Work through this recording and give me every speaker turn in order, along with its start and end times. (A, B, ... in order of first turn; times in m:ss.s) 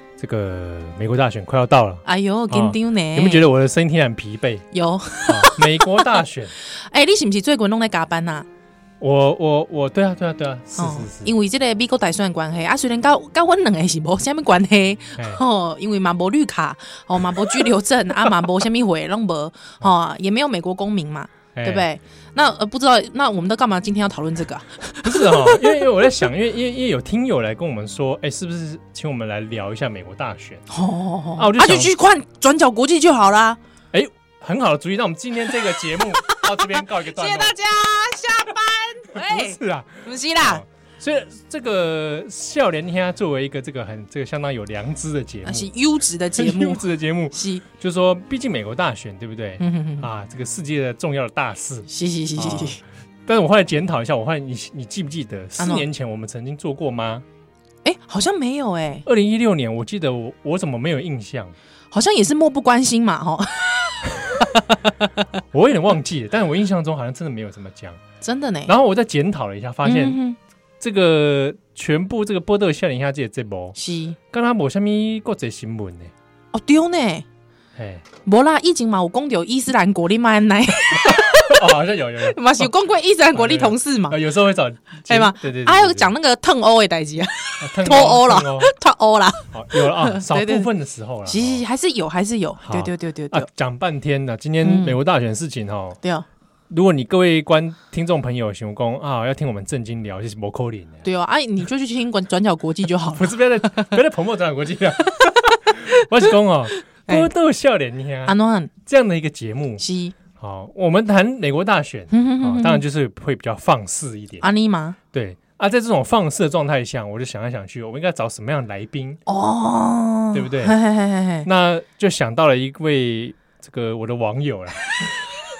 0:00.2-0:04.7 A
0:02.0-0:03.5 B
0:04.7-0:08.5 B
0:05.3-0:06.5 A
0:09.0-0:11.3 A
0:10.8-0:25.9 B
0:21.6-0:21.9 A
0:25.0-0:30.6 A
0:30.7-0:33.6 B
0:31.4-0:31.9 A
0:33.9-0:37.6 A
0:36.3-0:40.6 B
0:39.1-0:45.7 A
0:45.4-0:47.6 B
0:46.4-0:57.2 A
0:49.6-0:50.1 B
0:51.9-0:52.8 B
0:55.6-0:55.9 B
0:57.8-0:59.1 B
0:59.1-1:01.5 A
1:01.9-1:05.2 B
1:05.5-1:08.0 A
1:08.2-1:08.7 B
1:08.7-1:10.2 A
1:09.8-1:10.4 B
1:10.8-1:13.8 A
1:13.8-1:14.2 B
1:14.3-1:16.1 A
1:16.5-1:17.2 B
1:17.8-1:18.0 A
1:18.2-1:24.2 B
1:21.0-1:22.7 A
1:23.4-1:26.1 A
1:25.1-1:30.7 B
1:27.6-1:28.7 A
1:29.5-1:31.6 A
1:31.3-1:33.5 B
1:32.6-1:36.0 A
1:34.6-1:35.0 B
1:36.7-1:41.1 A
1:41.0-1:44.0 B
1:43.2-1:49.8 A
1:48.3-1:48.7 B
1:49.8-1:50.1 B
1:50.4-1:54.5 A
1:52.1-1:52.8 B
1:54.4-1:55.0 B
1:55.1-1:59.2 A
1:59.3-2:01.5 B
2:00.3-2:00.8 A
2:01.4-2:05.2 A